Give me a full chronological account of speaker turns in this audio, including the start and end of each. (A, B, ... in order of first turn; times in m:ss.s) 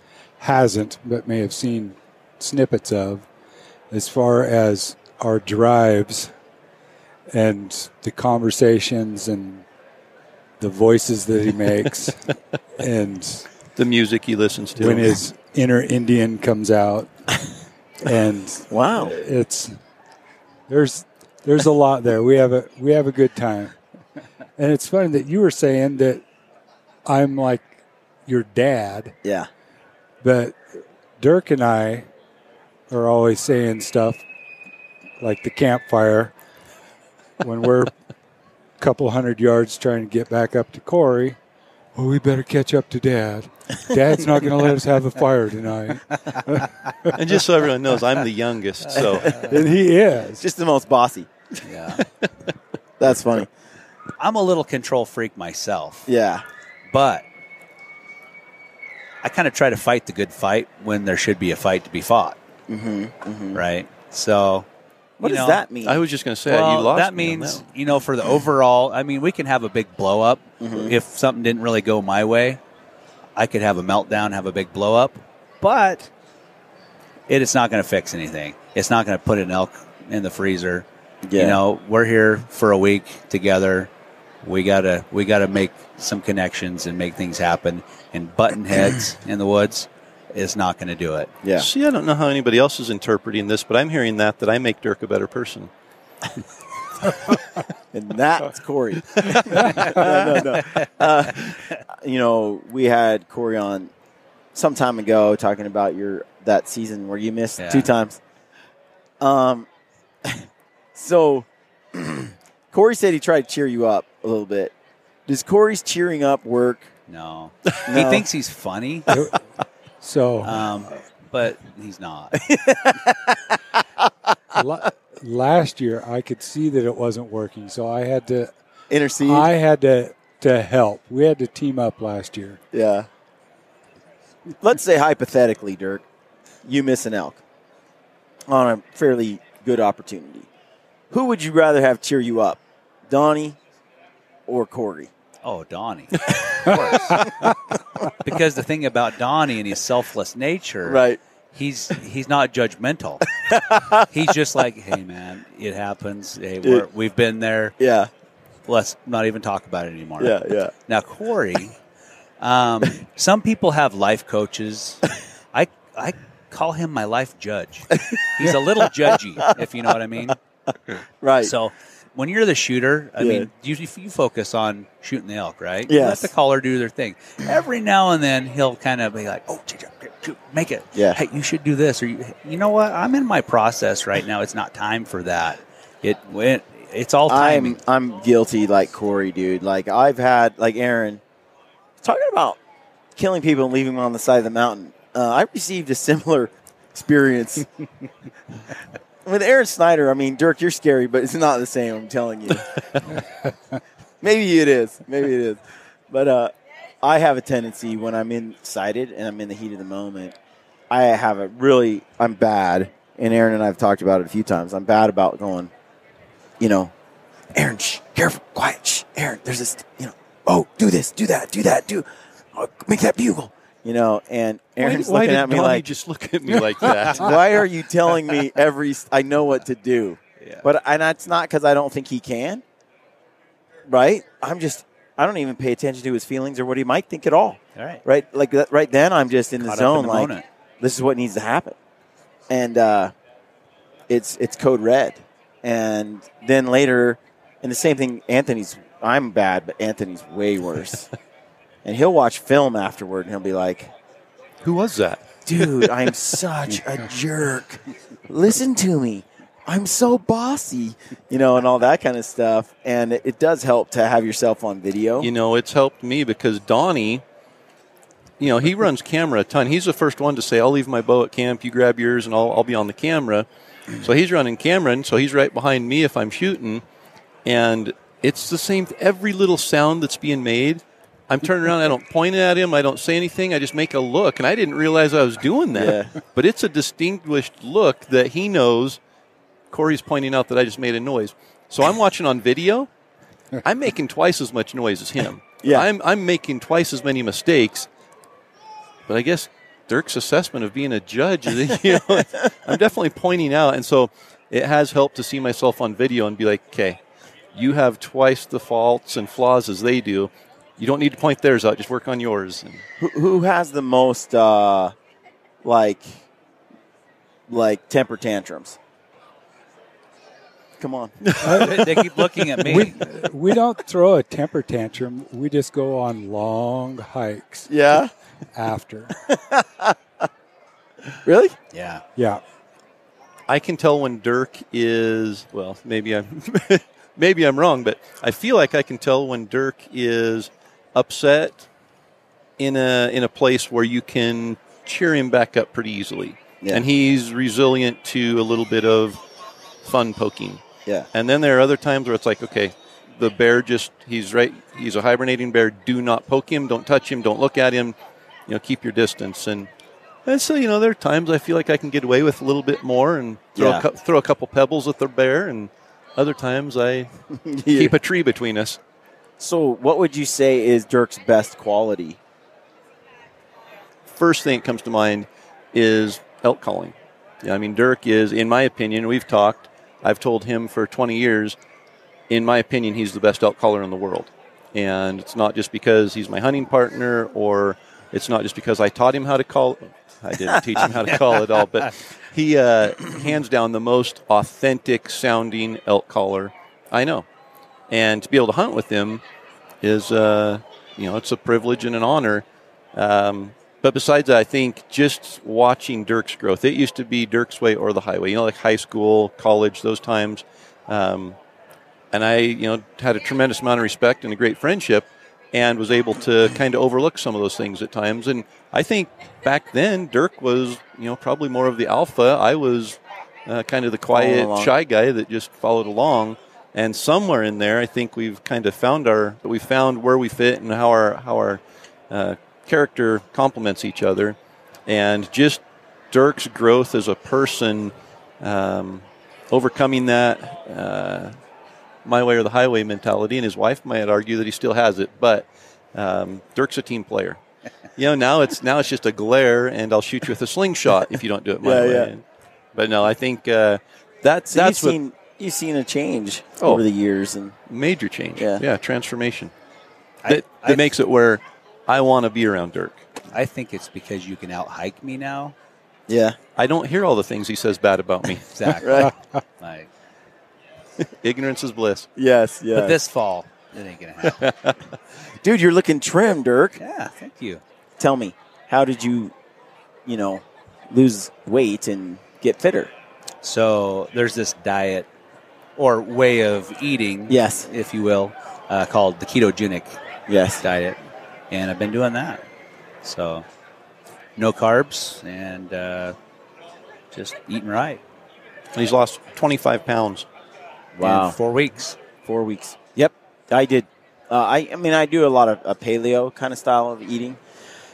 0:00.4-0:03.3 A
0:03.9-0:06.3 A
0:07.3-0:09.6 A
0:10.6-0:12.2 A
0:12.8-0:13.5 A
0:13.8-0:15.2 B
0:14.8-0:17.3 A
0:18.0-0:19.8 A
0:18.7-0:19.2 C
0:20.7-0:23.8 A
0:24.6-0:26.2 A
0:27.0-0:29.1 A
0:29.2-0:29.5 C
0:30.2-0:30.6 A
0:31.2-0:32.1 A
0:32.9-0:34.2 A
0:35.2-0:36.3 A
0:37.4-0:37.9 A
0:38.8-0:41.4 A
0:41.9-0:47.1 A
0:47.1-0:49.4 B
0:48.9-0:49.5 C
0:49.4-0:50.4 A
0:50.3-0:51.3 C
0:51.6-0:52.0 D
0:53.0-0:53.5 C
0:54.2-0:56.0 D
0:56.1-0:56.4 C
0:56.9-0:57.2 D
0:59.2-1:02.4 D
1:02.7-1:03.6 C
1:03.5-1:04.7 D
1:05.2-1:06.0 C
1:05.2-1:05.6 D
1:05.8-1:07.6 B
1:06.5-1:12.6 D
1:10.6-1:10.9 C
1:13.4-1:16.1 D
1:17.3-1:23.9 D
1:21.2-1:21.6 C
1:24.4-1:31.3 D
1:31.4-1:31.7 C
1:31.6-1:35.7 B
1:37.9-1:43.9 C
1:44.5-1:48.2 C
1:47.6-1:47.9 D
1:49.2-1:49.7 C
1:50.2-1:54.7 C
1:55.3-1:56.9 C
1:57.1-1:59.1 D
1:57.8-1:58.3 C
1:59.1-1:59.4 A
2:00.0-2:00.6 A
2:00.4-2:02.4 D
2:02.3-2:03.6 C
2:04.5-2:08.5 A
2:08.9-2:09.5 C
2:09.2-2:12.6 A
2:12.7-2:13.1 C
2:14.6-2:16.0 C
2:16.6-2:17.4 C
2:18.5-2:20.5 C
2:21.1-2:23.6 C
2:24.5-2:25.1 C
2:25.4-2:27.3 D
2:26.7-2:27.5 C
2:28.2-2:31.0 D
2:30.8-2:31.2 C
2:31.5-2:33.2 D
2:33.4-2:34.3 C
2:34.1-2:37.8 D
2:37.8-2:38.1 C
2:38.7-2:40.4 D
2:40.2-2:40.7 C
2:40.9-2:41.8 D
2:42.4-2:50.4 D
2:51.2-2:51.5 C
2:51.4-3:07.8 D
2:53.2-2:53.5 C
2:55.9-2:56.3 C
3:00.9-3:01.2 C
3:07.3-3:11.2 C
3:12.0-3:12.6 C
3:13.1-3:17.8 C
3:19.2-3:22.7 C
3:24.2-3:30.4 C
3:30.9-3:35.7 C
3:36.6-3:36.9 C
3:37.5-3:45.9 C
3:44.8-3:47.4 B
3:47.0-3:52.6 C
3:50.4-3:50.7 D
3:53.9-4:01.8 C
3:57.7-3:58.0 D
3:59.6-4:00.4 D
4:02.5-4:03.1 C
4:04.1-4:11.1 C
4:11.8-4:13.9 C
4:14.6-4:16.1 B
4:15.4-4:25.3 C
4:25.2-4:27.2 B
4:28.4-4:33.5 B
4:34.0-4:36.8 B
4:37.4-4:49.0 B
4:45.7-4:46.1 C
4:49.7-4:52.9 B
4:53.6-4:57.9 B
4:59.1-5:07.0 B
5:07.5-5:12.8 B
5:13.0-5:14.9 C
5:15.6-5:16.2 C
5:17.5-5:18.8 C
5:20.8-5:21.2 C
5:21.2-5:21.6 B
5:21.4-5:22.1 A
5:21.6-5:23.0 D
5:22.6-5:27.7 A
5:27.7-5:28.1 C
5:28.5-5:29.1 A
5:29.2-5:29.9 C
5:31.2-5:31.6 C
5:31.7-5:32.0 D
5:32.2-5:32.4 A
5:33.5-5:41.6 B
5:42.6-5:49.2 B
5:49.8-5:50.6 B
5:51.1-5:58.0 B
5:58.5-5:59.7 B
6:00.2-6:07.1 B
6:03.6-6:03.9 C
6:07.4-6:07.9 C
6:07.7-6:08.8 B
6:09.4-6:12.2 C
6:14.1-6:21.6 B
6:22.3-6:37.2 B
6:37.9-6:39.2 B
6:39.8-6:51.4 B
6:52.1-7:11.6 B
7:04.1-7:04.7 C
7:12.1-7:21.4 B
7:22.0-7:27.4 B
7:28.0-7:32.2 B
7:31.6-7:32.1 C
7:32.7-7:35.0 B
7:34.5-7:37.6 C
7:37.7-7:39.5 B
7:38.4-7:38.6 C
7:40.2-7:40.8 D
7:40.3-7:43.1 B
7:43.3-7:45.5 D
7:46.1-7:46.4 C
7:46.6-7:48.8 B
7:48.5-7:49.9 D
7:48.8-7:49.1 C
7:51.2-7:52.1 B
7:52.2-7:53.0 C
7:52.7-7:54.4 D
7:54.3-7:54.8 B
7:55.4-7:56.8 C
7:56.8-7:57.6 D
7:58.0-7:59.3 C
8:00.1-8:02.9 C
8:03.4-8:05.1 D
8:05.8-8:10.0 D
8:07.3-8:07.7 C
8:10.3-8:10.6 C
8:10.6-8:11.0 D
8:11.5-8:12.4 D
8:13.0-8:13.5 D
8:14.4-8:16.2 D
8:17.1-8:18.0 D
8:18.7-8:20.3 B
8:20.9-8:21.4 C
8:21.0-8:22.0 D
8:22.2-8:27.4 C